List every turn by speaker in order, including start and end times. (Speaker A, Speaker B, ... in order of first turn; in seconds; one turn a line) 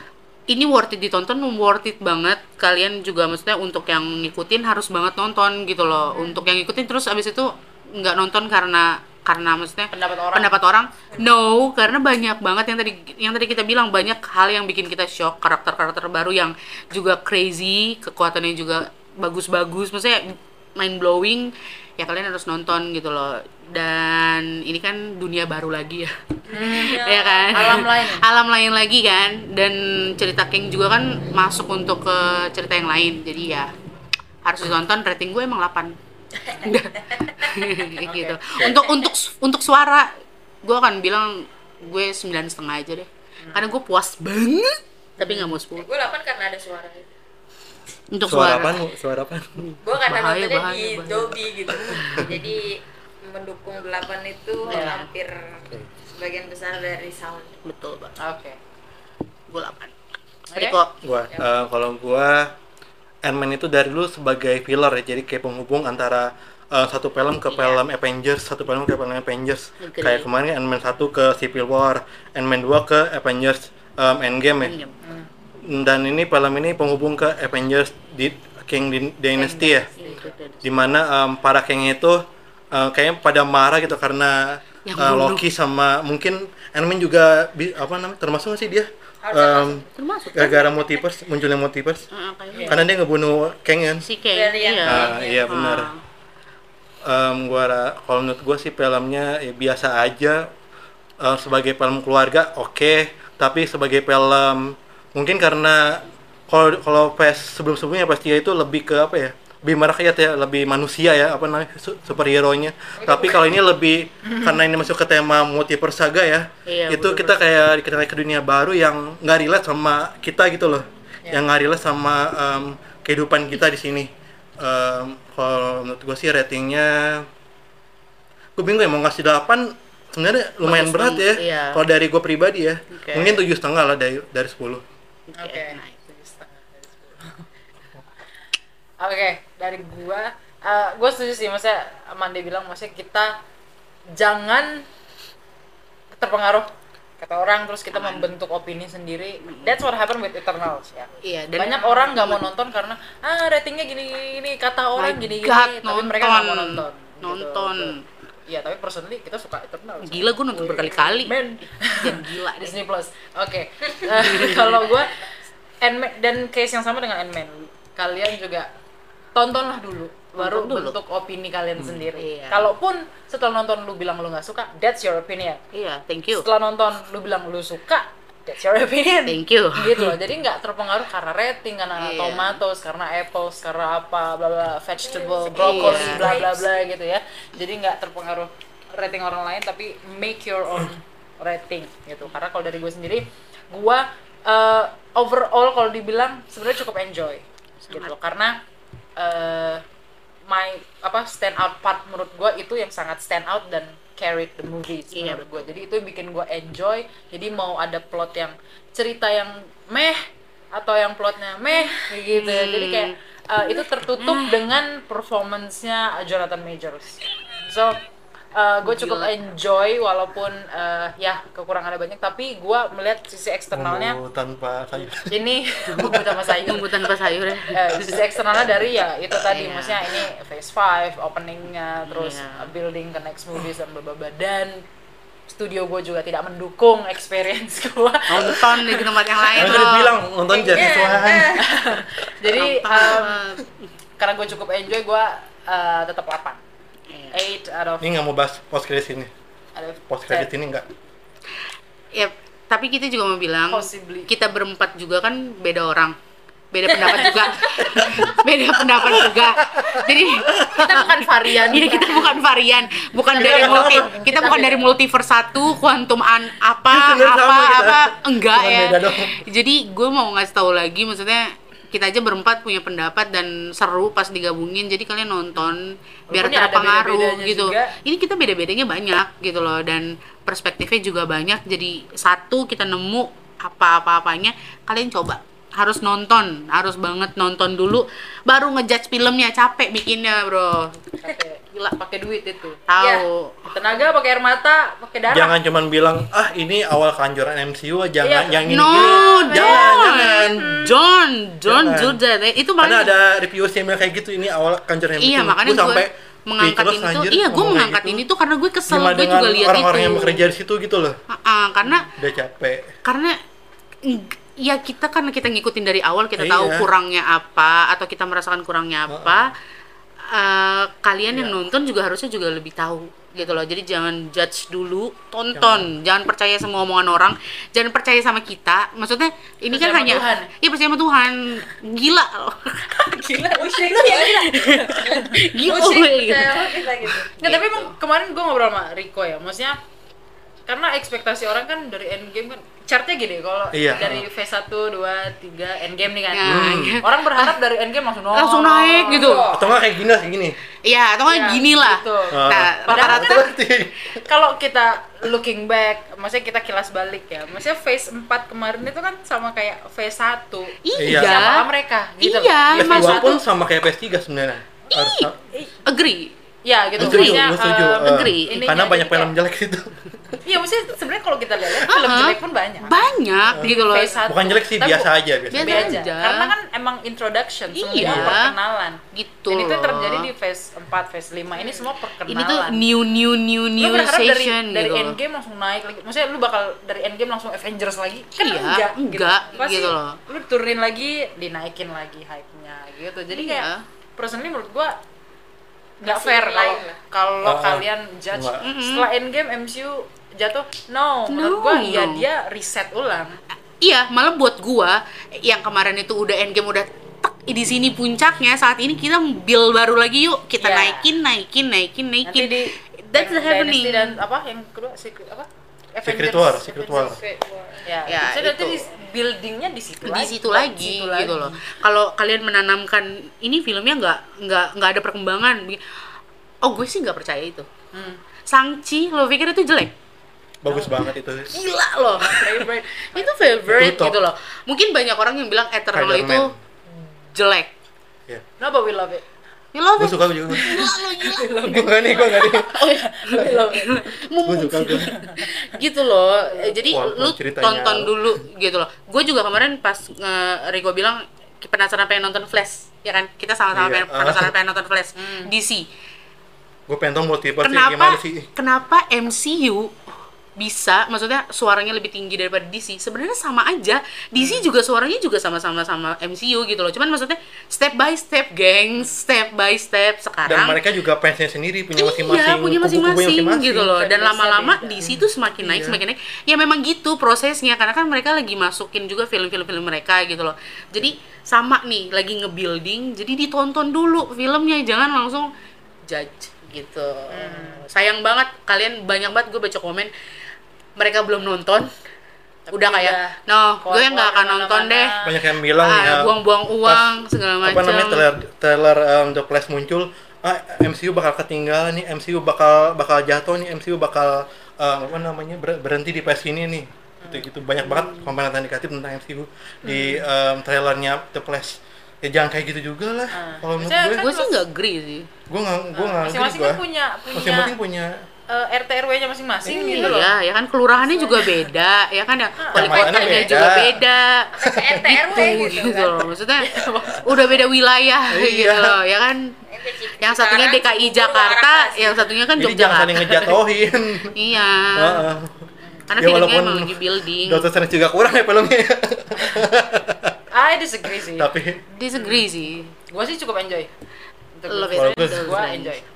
Speaker A: 0.5-33.7
Speaker B: 9.9-10.6
Speaker C: 26.5-27.8
Speaker B: 26.5-28.2
Speaker A: 34.4-36.0
Speaker C: 36.4-37.7
Speaker A: 36.5-40.1
Speaker B: 38.0-38.4
Speaker C: 38.6-39.1
Speaker A: 40.6-45.9
Speaker B: 43.4-43.7
Speaker B: 45.2-45.6
Speaker C: 45.7-47.1
Speaker A: 48.1-48.8
Speaker D: 48.2-49.5
Speaker A: 49.6-52.3
Speaker C: 49.8-57.6
Speaker A: 54.6-55.1
Speaker B: 54.7-55.0
Speaker A: 57.6-58.1
Speaker B: 58.2-58.6
Speaker A: 59.5-59.9
Speaker B: 60.5-60.8
Speaker A: 60.5-60.9
Speaker D: 61.0-62.5
Speaker D: 63.2-74.7
Speaker A: 67.5-67.8
Speaker A: 69.8-70.3
Speaker A: 74.6-74.9
Speaker B: 75.0-75.3
Speaker D: 75.6-79.9
Speaker B: 79.3-80.3
Speaker A: 80.0-80.9
Speaker D: 80.6-92.0
Speaker A: 84.8-85.4
Speaker C: 89.2-89.9
Speaker A: 89.9-90.9
Speaker A: 92.1-92.8
Speaker B: 92.5-92.8
Speaker D: 92.7-94.0
Speaker A: 94.0-96.0
Speaker C: 94.3-95.5
Speaker D: 94.8-95.9
Speaker D: 97.0-100.5
Speaker D: 101.2-127.3
Speaker B: 113.0-113.3
Speaker B: 114.2-114.6
Speaker A: 116.7-117.4
Speaker D: 128.6-134.8
Speaker A: 130.6-131.8
Speaker A: 132.9-133.4
Speaker A: 135.3-136.1
Speaker B: 135.4-137.4
Speaker B: 139.0-143.3
Speaker B: 144.1-144.8
Speaker B: 146.1-157.9
Speaker A: 147.9-148.3
Speaker A: 149.4-149.7
Speaker A: 151.2-152.4
Speaker A: 155.0-158.0
Speaker B: 158.5-165.3
Speaker A: 160.0-161.4
Speaker A: 162.0-162.8
Speaker A: 164.1-164.9
Speaker B: 165.8-168.7
Speaker B: 169.3-175.6
Speaker A: 170.3-171.0
Speaker D: 171.8-172.0
Speaker A: 172.2-172.7
Speaker A: 175.7-176.4
Speaker B: 176.3-198.6
Speaker A: 179.2-180.1
Speaker A: 182.0-182.6
Speaker C: 185.0-186.8
Speaker A: 185.6-186.4
Speaker A: 197.9-198.1
Speaker B: 199.2-199.8
Speaker B: 200.5-210.2
Speaker A: 205.1-205.6
Speaker B: 210.7-218.0
Speaker A: 212.3-213.2
Speaker A: 214.1-214.6
Speaker B: 218.5-224.2
Speaker A: 218.8-219.3
Speaker D: 223.7-225.3
Speaker B: 225.3-227.0
Speaker A: 225.9-228.2
Speaker D: 226.0-226.3
Speaker B: 227.7-234.8
Speaker A: 229.4-230.0
Speaker A: 232.1-232.7
Speaker B: 235.5-239.8
Speaker A: 238.3-240.1
Speaker D: 239.6-241.6
Speaker C: 240.5-241.7
Speaker B: 240.7-243.4
Speaker A: 242.5-243.8
Speaker B: 244.2-246.6
Speaker A: 247.1-247.4
Speaker B: 247.3-248.1
Speaker D: 248.0-249.3
Speaker B: 249.7-250.5
Speaker D: 250.1-250.9
Speaker A: 252.1-256.1
Speaker B: 253.7-254.3
Speaker A: 256.7-291.1
Speaker B: 257.0-257.6
Speaker D: 257.9-258.3
Speaker D: 259.0-260.9
Speaker B: 260.6-262.4
Speaker B: 263.2-265.0
Speaker D: 263.4-264.1
Speaker D: 266.9-269.4
Speaker B: 276.3-277.9
Speaker B: 291.2-292.8
Speaker A: 292.9-293.7
Speaker C: 293.0-293.2
Speaker B: 293.7-295.5
Speaker D: 295.3-300.6
Speaker B: 298.2-300.9
Speaker A: 298.7-303.1
Speaker D: 301.6-302.2
Speaker D: 302.8-308.2
Speaker A: 305.2-310.5
Speaker D: 308.9-311.2
Speaker A: 311.3-312.1
Speaker D: 312.1-312.9
Speaker A: 313.0-313.4
Speaker A: 314.0-319.5
Speaker D: 316.4-316.9
Speaker D: 319.1-319.5
Speaker A: 320.3-332.9
Speaker D: 325.5-325.9
Speaker B: 329.7-330.5
Speaker B: 332.9-335.3
Speaker C: 333.4-337.4
Speaker A: 333.8-336.8
Speaker B: 337.4-339.8
Speaker A: 337.4-337.9
Speaker B: 340.7-349.5
Speaker D: 343.7-344.2
Speaker A: 346.3-347.5
Speaker D: 346.4-347.0
Speaker A: 348.3-349.4
Speaker C: 349.1-349.7
Speaker D: 349.5-350.6
Speaker A: 350.8-353.4
Speaker B: 351.3-353.5
Speaker D: 352.3-354.2
Speaker B: 354.2-363.4
Speaker A: 360.8-361.7
Speaker D: 361.0-361.5
Speaker A: 362.2-363.4
Speaker D: 362.7-365.4
Speaker A: 364.9-365.3
Speaker A: 365.9-366.3
Speaker B: 366.6-369.3
Speaker A: 367.0-367.5
Speaker D: 367.0-370.4
Speaker A: 368.0-368.6
Speaker B: 370.4-373.0
Speaker A: 371.9-374.2
Speaker B: 373.6-382.9
Speaker D: 374.3-375.9
Speaker A: 375.5-376.5
Speaker A: 377.7-378.5
Speaker D: 378.0-378.4
Speaker A: 379.1-380.3
Speaker C: 381.6-381.8
Speaker A: 382.3-385.2
Speaker B: 383.8-394.9
Speaker A: 388.4-390.2
Speaker A: 393.3-393.8
Speaker B: 396.0-403.4
Speaker C: 396.0-397.0
Speaker D: 397.4-398.6
Speaker A: 398.6-399.1
Speaker A: 401.3-402.2
Speaker A: 403.8-414.2
Speaker B: 410.6-411.1
Speaker B: 412.2-417.1
Speaker D: 416.0-417.2
Speaker C: 416.9-417.9
Speaker B: 417.9-421.6
Speaker A: 418.1-418.9
Speaker A: 420.0-425.8
Speaker A: 426.6-427.7
Speaker B: 427.9-428.2
Speaker A: 428.5-429.9
Speaker D: 430.6-431.5
Speaker A: 431.5-436.5
Speaker B: 432.2-434.1
Speaker D: 433.7-434.2
Speaker D: 435.9-436.6
Speaker A: 437.3-437.7
Speaker B: 438.6-439.2
Speaker A: 439.7-455.9
Speaker D: 440.0-440.9
Speaker B: 440.5-444.1
Speaker D: 441.6-442.7
Speaker D: 444.4-445.1
Speaker B: 444.8-445.8
Speaker D: 446.9-448.4
Speaker D: 453.7-454.5
Speaker B: 455.2-455.5
Speaker D: 456.9-458.5
Speaker A: 457.6-459.9
Speaker A: 460.6-470.8
Speaker B: 464.4-464.7
Speaker D: 470.4-473.9
Speaker A: 471.9-485.5
Speaker B: 473.8-475.1
Speaker D: 475.1-476.0
Speaker A: 486.1-490.1
Speaker B: 487.3-487.8
Speaker A: 491.0-491.9
Speaker B: 492.7-495.4
Speaker A: 492.7-495.2
Speaker D: 495.2-497.1
Speaker A: 495.7-498.2
Speaker D: 497.6-514.3
Speaker B: 507.2-507.4
Speaker A: 507.8-508.2
Speaker B: 509.8-510.2
Speaker B: 513.3-514.6
Speaker A: 514.1-515.3
Speaker D: 515.5-518.2
Speaker B: 515.9-517.7
Speaker B: 518.5-520.3
Speaker D: 519.6-520.1
Speaker A: 519.8-524.5
Speaker B: 521.0-521.7
Speaker B: 522.6-523.6
Speaker D: 522.7-524.0
Speaker C: 522.8-523.4
Speaker C: 524.5-526.3
Speaker D: 524.6-525.6
Speaker A: 525.2-529.6
Speaker B: 526.6-527.6
Speaker D: 528.3-529.0
Speaker C: 529.7-532.4
Speaker A: 530.2-533.6
Speaker D: 532.6-534.3
Speaker A: 534.3-535.2
Speaker D: 535.0-535.7
Speaker B: 535.8-536.1
Speaker A: 536.1-537.7
Speaker D: 536.2-540.4
Speaker B: 540.5-541.5
Speaker D: 541.4-541.8
Speaker A: 541.9-542.9
Speaker B: 542.1-543.9
Speaker B: 544.5-546.0
Speaker A: 544.7-546.0
Speaker D: 544.9-545.5